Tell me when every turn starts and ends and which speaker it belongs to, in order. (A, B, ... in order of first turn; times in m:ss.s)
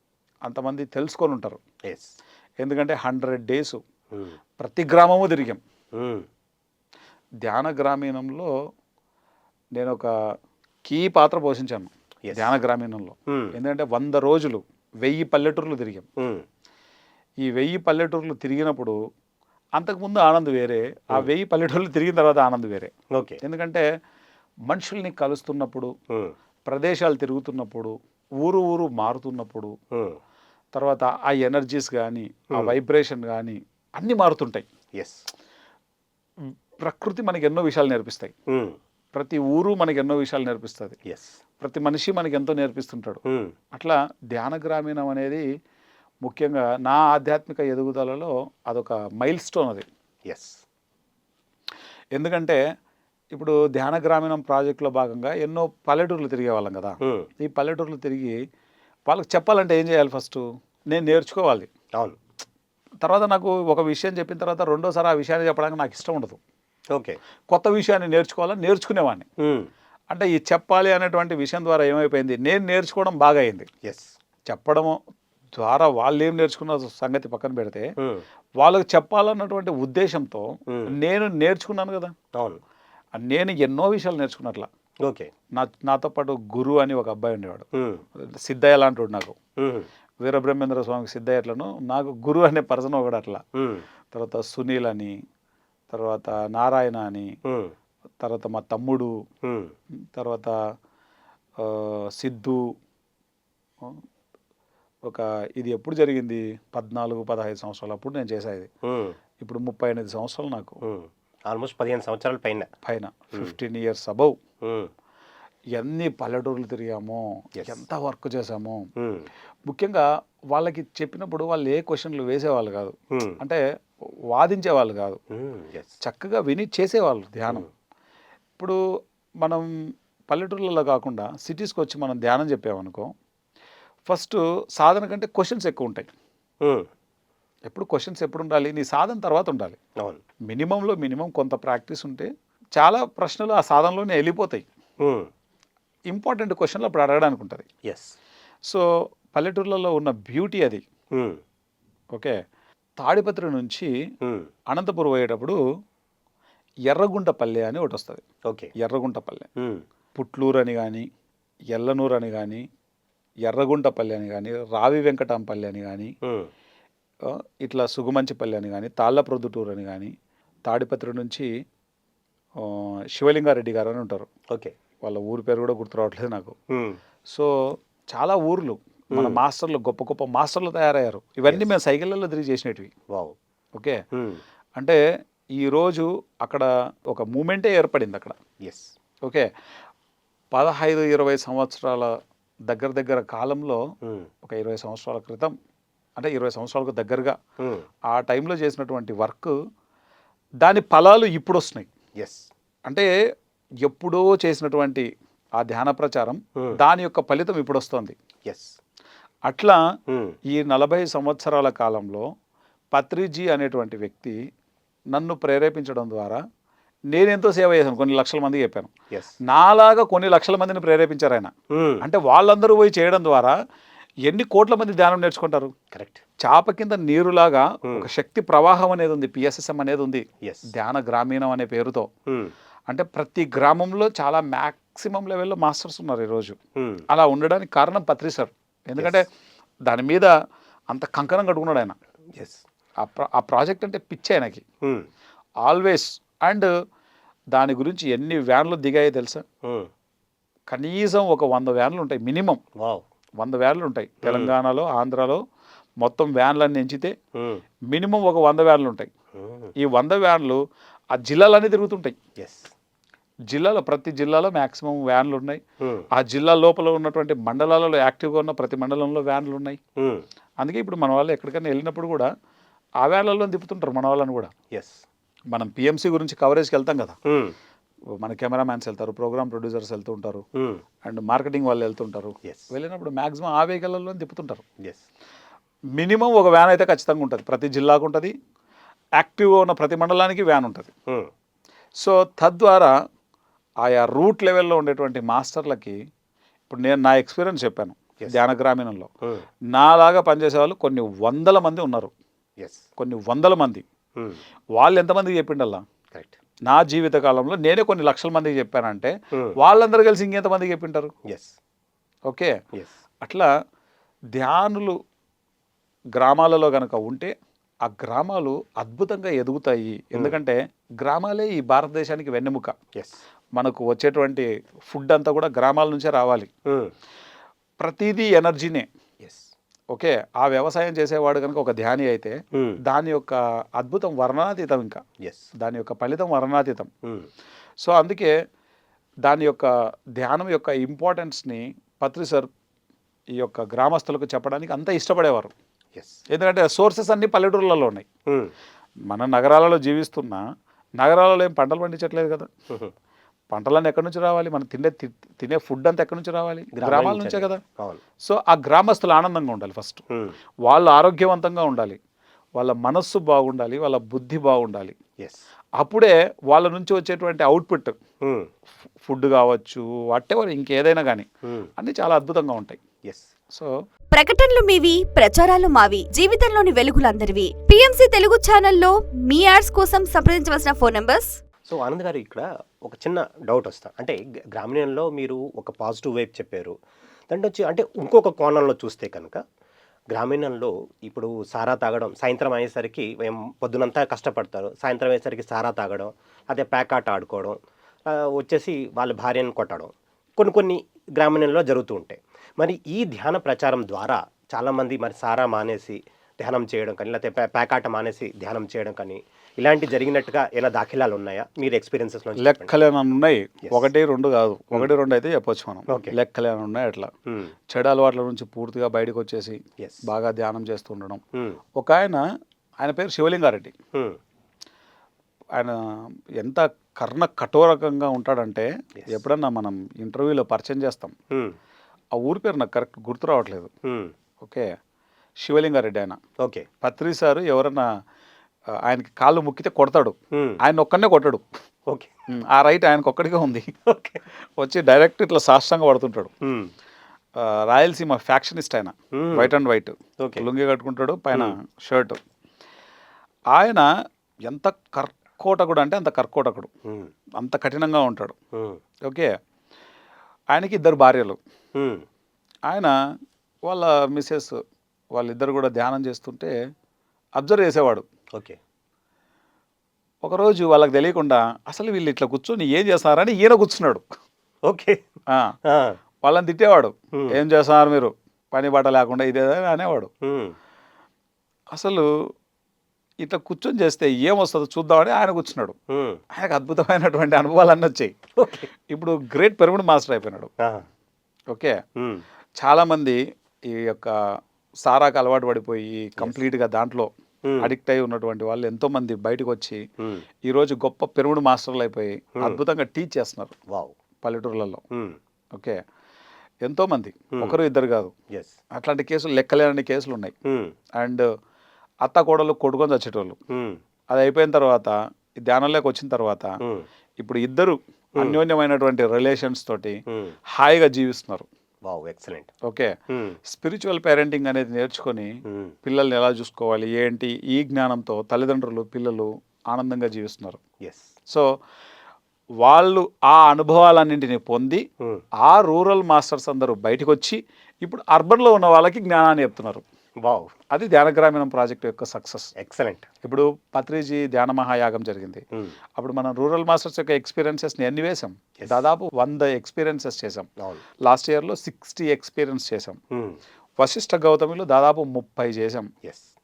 0:00.4-0:01.6 A
0:01.8-0:02.2 B
0:02.6-0:03.8 A
0:04.1-0:04.4 B
0:04.6-0:05.6 A
0:05.9-0:06.3 B
0:07.4-0:08.5 A
0:09.8-0:10.1 A
0:10.8-0:16.1 A
0:12.2-0:12.5 B
0:13.3-0:13.6 B
0:16.2-0:16.4 B
0:17.4-0:19.0 A
0:19.8-0:23.8 A
0:23.1-0:23.4 B
0:24.7-0:25.9 A
0:26.1-0:26.4 B
0:26.7-0:29.8 A
0:29.9-0:30.2 B
0:30.7-0:34.7 A
0:35.0-0:35.3 B
0:36.5-0:38.3 A
0:38.5-0:38.8 B
0:39.1-0:41.0 A
0:41.0-0:41.4 B
0:41.6-0:43.2 A
0:43.3-0:43.5 B
0:43.7-0:45.4 A
0:46.2-0:49.9 A
0:50.3-0:50.6 B
0:52.2-0:52.6 A
0:53.3-0:58.4 A
0:57.0-0:57.3 B
0:59.1-1:01.7 A
1:03.0-1:06.4 A
1:06.9-1:07.2 B
1:07.5-1:09.3 A
1:09.4-1:09.7 B
1:10.1-1:13.7 A
1:13.8-1:14.1 B
1:14.5-1:15.0 A
1:15.6-1:17.9 A
1:18.0-1:18.2 B
1:18.6-1:22.2 A
1:22.3-1:22.6 B
1:23.2-1:24.7 A
1:25.0-1:25.3 B
1:25.5-1:29.4 A
1:27.7-1:28.0 B
1:29.6-1:29.9 B
1:30.2-1:33.4 A
1:33.6-1:33.9 B
1:34.1-1:35.2 A
1:35.9-1:37.3 A
1:37.4-1:37.7 B
1:38.2-1:39.1 A
1:39.4-1:39.8 B
1:40.1-1:40.6 A
1:41.6-1:42.7 A
1:45.0-1:48.7 A
1:48.8-1:49.2 B
1:49.4-1:50.8 A
1:50.8-1:52.7 B
1:52.8-1:54.4 A
1:54.6-1:54.9 B
1:55.8-1:58.9 A
1:57.6-1:57.8 B
1:59.0-1:59.3 B
1:59.7-2:03.6 A
2:03.1-2:03.4 B
2:04.3-2:05.2 A
2:05.3-2:06.0 B
2:06.0-2:07.7 A
2:09.4-2:09.7 A
2:10.3-2:13.1 A
2:14.1-2:16.1 A
2:16.6-2:16.9 B
2:17.7-2:19.8 A
2:20.5-2:24.7 A
2:25.0-2:25.3 B
2:26.1-2:27.7 A
2:27.8-2:28.2 B
2:28.7-2:30.8 A
2:31.1-2:31.4 B
2:33.0-2:33.9 A
2:34.2-2:34.5 B
2:34.7-2:35.6 A
2:36.9-2:38.2 A
2:38.5-2:38.7 B
2:38.8-2:39.5 A
2:39.6-2:39.8 B
2:40.2-2:41.1 A
2:41.7-2:42.6 A
2:43.4-2:46.1 A
2:46.2-2:46.5 B
2:47.3-2:50.1 A
2:50.7-2:51.5 A
2:52.6-2:54.3 A
2:54.5-2:54.8 B
2:55.0-2:56.6 A
2:56.7-2:57.0 B
2:57.3-3:02.9 A
2:59.1-2:59.4 B
3:01.5-3:01.7 B
3:03.1-3:03.4 B
3:03.8-3:04.0 A
3:04.1-3:04.4 B
3:05.6-3:08.4 A
3:08.6-3:08.9 B
3:10.5-3:12.2 A
3:12.7-3:13.8 A
3:14.0-3:14.3 B
3:14.4-3:15.6 A
3:16.2-3:17.4 A
3:17.6-3:17.8 B
3:18.1-3:19.5 A
3:20.6-3:21.9 A
3:22.2-3:22.5 B
3:23.8-3:28.2 A
3:28.5-3:28.8 B
3:29.5-3:29.8 A
3:30.1-3:30.4 B
3:30.5-3:32.3 A
3:32.9-3:34.4 A
3:35.1-3:36.4 A
3:37.1-3:38.9 A
3:39.5-3:43.6 A
3:41.7-3:42.0 B
3:44.2-3:45.7 A
3:45.9-3:46.2 B
3:46.4-3:52.1 A
3:50.4-3:50.7 B
3:52.3-3:52.5 B
3:52.9-3:56.6 A
3:56.8-3:57.0 B
3:57.1-3:59.3 A
3:59.0-3:59.2 B
3:59.9-4:00.3 A
4:00.9-4:02.0 A
4:02.4-4:02.6 B
4:03.0-4:04.6 A
4:04.8-4:05.1 B
4:05.6-4:06.7 A
4:07.5-4:09.4 A
4:09.6-4:09.9 B
4:10.7-4:12.6 A
4:12.8-4:13.0 B
4:13.4-4:15.4 A
4:14.2-4:14.5 B
4:16.0-4:17.1 A
4:17.4-4:17.6 B
4:17.9-4:19.1 A
4:19.4-4:19.7 B
4:19.8-4:20.6 A
4:21.1-4:22.2 A
4:22.4-4:22.7 B
4:23.5-4:25.6 A
4:25.8-4:26.1 B
4:26.1-4:29.8 A
4:30.0-4:30.2 B
4:30.6-4:32.3 A
4:33.0-4:34.5 A
4:34.7-4:35.0 B
4:35.5-4:37.2 A
4:37.3-4:37.6 B
4:38.2-4:40.4 A
4:40.6-4:40.8 B
4:41.0-4:44.6 A
4:42.4-4:42.7 B
4:46.0-4:48.3 A
4:49.2-4:50.9 A
4:52.0-4:52.9 A
4:53.8-4:56.0 A
4:56.7-4:59.1 A
4:59.7-5:02.1 A
5:02.6-5:02.8 B
5:03.0-5:03.8 A
5:04.8-5:05.8 A
5:06.7-5:11.1 A
5:11.3-5:11.6 B
5:12.3-5:12.6 A
5:13.2-5:13.5 A
5:14.3-5:15.0 A
5:16.2-5:17.3 A
5:17.8-5:22.7 A
5:22.9-5:23.2 B
5:23.6-5:26.5 A
5:26.7-5:26.9 B
5:27.8-5:28.9 A
5:29.2-5:29.5 B
5:29.9-5:35.0 A
5:32.5-5:32.8 B
5:35.2-5:35.5 B
5:35.6-5:36.9 A
5:37.0-5:37.3 B
5:37.8-5:38.3 A
5:39.2-5:42.5 A
5:43.4-5:45.5 A
5:46.0-5:46.2 B
5:46.3-5:48.1 A
5:48.3-5:48.5 B
5:49.1-5:50.4 A
5:51.0-5:52.5 A
5:53.5-5:57.6 A
5:56.7-5:58.0 B
5:58.2-6:00.0 A
6:00.6-6:02.0 A
6:02.6-6:05.0 A
6:05.2-6:05.5 B
6:05.8-6:08.0 A
6:08.2-6:08.5 B
6:09.0-6:12.8 A
6:11.4-6:11.7 B
6:13.0-6:13.3 B
6:14.1-6:21.4 C
6:21.6-6:26.8 B
6:27.3-6:29.4 B
6:30.1-6:52.7 B
6:52.4-6:57.1 A
6:55.9-6:56.1 B
6:57.3-6:57.5 B
6:57.7-7:01.2 A
6:59.8-7:00.0 B
7:01.3-7:01.6 B
7:01.8-7:02.2 A
7:02.8-7:03.7 A
7:03.9-7:04.2 B
7:05.6-7:11.2 A
7:11.3-7:11.6 B
7:12.2-7:13.7 A
7:13.8-7:14.1 B
7:14.4-7:14.7 A
7:15.4-7:16.2 A
7:16.4-7:16.7 B
7:16.8-7:17.9 A
7:18.8-7:21.4 A
7:20.3-7:20.6 B
7:21.9-7:22.1 B
7:22.3-7:23.8 A
7:23.9-7:24.2 B
7:24.6-7:26.3 A
7:26.4-7:26.7 B
7:27.4-7:32.2 A
7:29.1-7:29.5 B
7:30.2-7:30.4 B
7:33.5-7:33.9 A
7:34.5-7:36.7 A
7:36.8-7:37.1 B
7:37.4-7:38.4 A
7:38.5-7:38.8 B
7:39.1-7:39.3 A
7:40.5-7:41.4 A
7:41.8-7:42.1 B
7:43.7-7:44.6 A
7:45.1-7:46.5 A
7:47.4-7:48.0 A
7:48.3-7:48.6 B
7:50.2-7:54.1 A
7:54.6-7:55.1 B
7:55.3-7:55.6 A
7:55.6-7:56.0 B
7:56.2-8:00.1 A
7:57.1-7:57.4 B
8:00.2-8:00.6 B
8:01.7-8:02.3 A
8:03.2-8:05.8 A
8:05.9-8:06.2 B
8:06.3-8:08.2 A
8:08.4-8:08.7 B
8:08.9-8:10.5 A
8:10.6-8:10.9 B
8:11.5-8:11.8 A
8:12.0-8:12.2 B
8:12.6-8:19.8 A
8:17.4-8:17.7 B
8:20.0-8:20.2 B
8:20.4-8:23.6 A
8:23.7-8:24.0 B
8:24.2-8:24.8 A
8:24.9-8:25.2 B
8:25.5-8:25.8 A
8:26.6-8:28.1 A
8:27.3-8:27.6 B
8:28.7-8:30.3 A
8:30.4-8:30.7 B
8:31.0-8:31.2 A
8:32.0-8:33.4 A
8:33.5-8:33.8 B
8:34.1-8:36.6 A
8:36.6-8:36.9 B
8:37.2-8:41.5 A
8:40.1-8:40.3 B
8:41.8-8:42.5 B
8:42.6-8:42.9 A
8:43.1-8:43.4 B
8:43.5-8:50.6 A
8:45.5-8:45.8 B
8:50.8-8:51.1 B
8:52.6-8:54.8 A
8:55.4-8:59.8 A
9:00.2-9:00.5 B
9:00.7-9:02.5 A
9:02.6-9:03.1 B
9:03.2-9:05.4 A
9:06.0-9:10.5 A
9:08.6-9:08.8 B
9:10.6-9:10.8 B
9:11.0-9:13.0 A
9:13.1-9:13.4 B
9:13.8-9:15.9 A